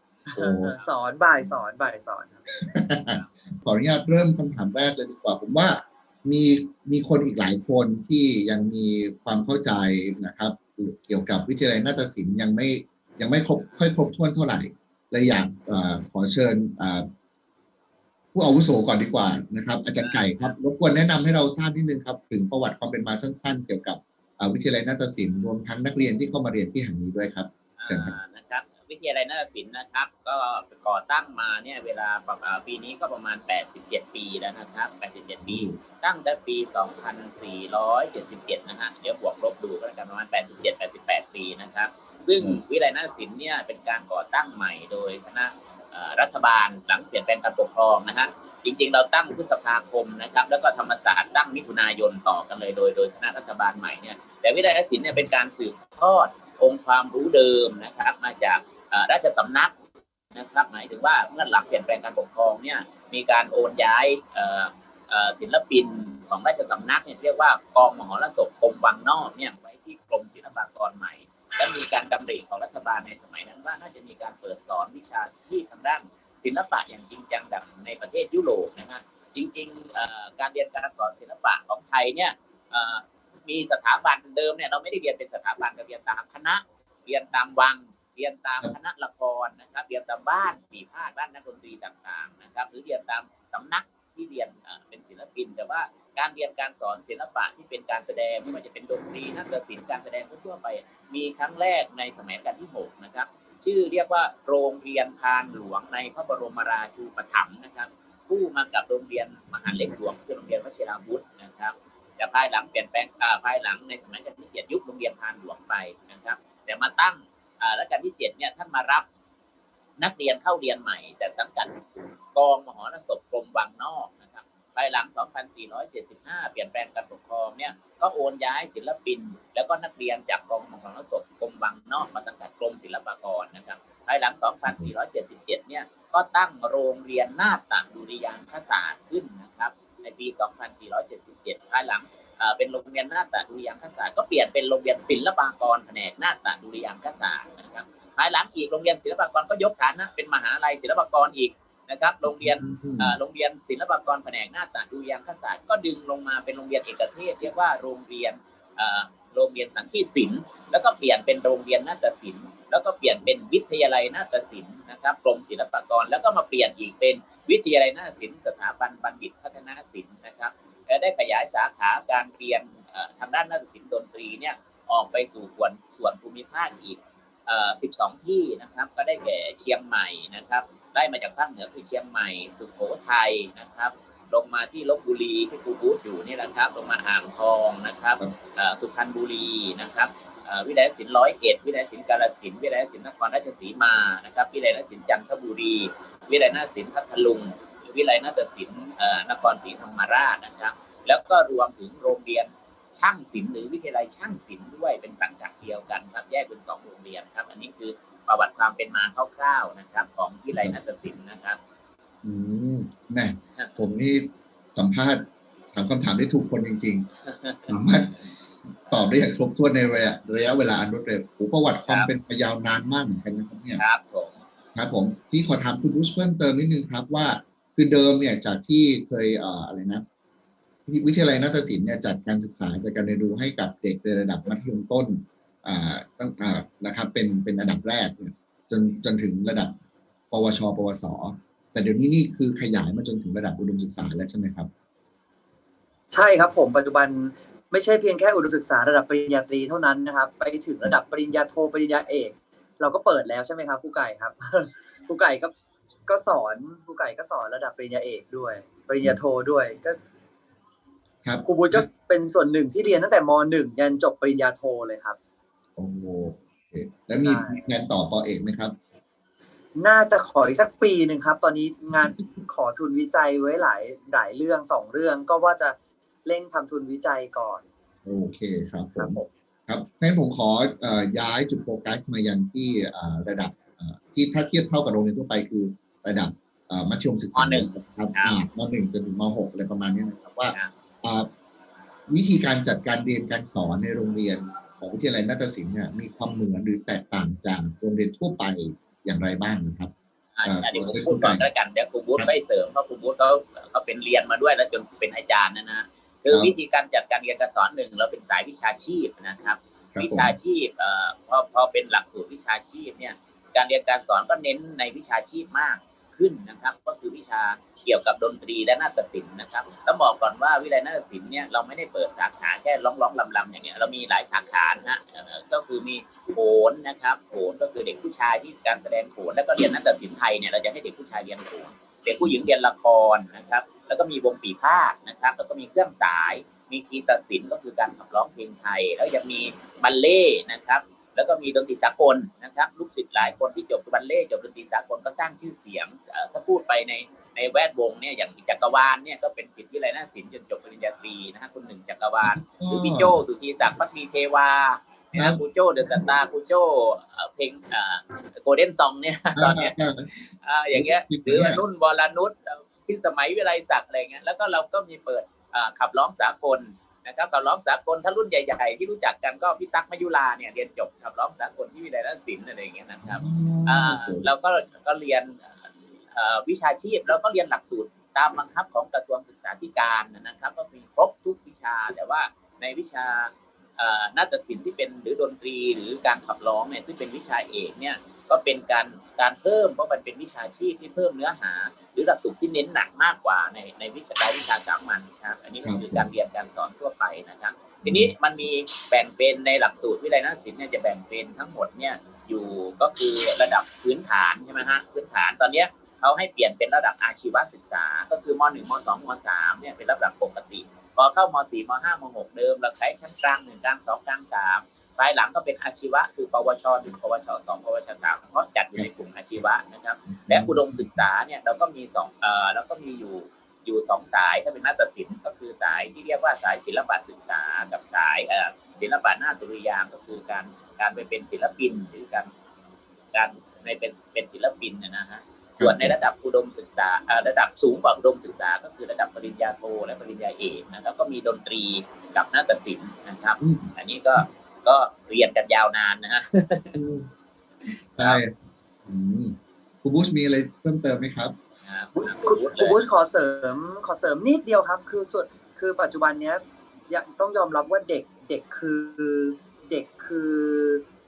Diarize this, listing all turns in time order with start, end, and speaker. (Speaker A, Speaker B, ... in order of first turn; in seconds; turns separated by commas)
Speaker A: 0.3-2.5, Speaker B: 0.3-0.7, Speaker B: 2.6-17.1, Speaker B: 18.3-28.1, Speaker C: 20.0-20.5, Speaker C: 27.8-59.7, Speaker B: 35.4-35.8, Speaker C: 60.3-119.0, Speaker C: 120.0-121.8, Speaker C: 122.3-211.6, Speaker B: 152.3-153.2, Speaker B: 212.2-217.1, Speaker C: 217.3-217.7, Speaker B: 217.7-218.1, Speaker B: 218.9-223.8, Speaker C: 223.8-224.4, Speaker B: 224.7-230.0, Speaker B: 230.9-239.7, Speaker B: 240.3-244.7, Speaker A: 246.1-255.5, Speaker A: 256.1-260.0, Speaker B: 261.2-261.9, Speaker A: 261.4-265.2, Speaker B: 265.8-268.8, Speaker A: 267.2-267.7, Speaker A: 269.8-277.6, Speaker B: 278.0-291.3, Speaker A: 279.0-279.3, Speaker C: 287.4-288.4, Speaker B: 292.1-299.9, Speaker C: 300.4-375.5, Speaker B: 300.4-301.5, Speaker B: 309.9-310.4, Speaker B: 352.2-353.2, Speaker B: 355.1-356.1, Speaker B: 359.4-360.1, Speaker B: 360.7-361.6, Speaker B: 373.1-374.2, Speaker C: 376.1-432.3, Speaker B: 395.6-396.1, Speaker B: 397.8-398.1, Speaker B: 420.1-421.0, Speaker C: 433.1-446.8, Speaker B: 435.6-436.0, Speaker B: 443.4-444.2, Speaker B: 446.8-447.1, Speaker C: 447.6-448.2, Speaker B: 448.0-451.4, Speaker C: 451.6-452.8, Speaker A: 452.0-460.8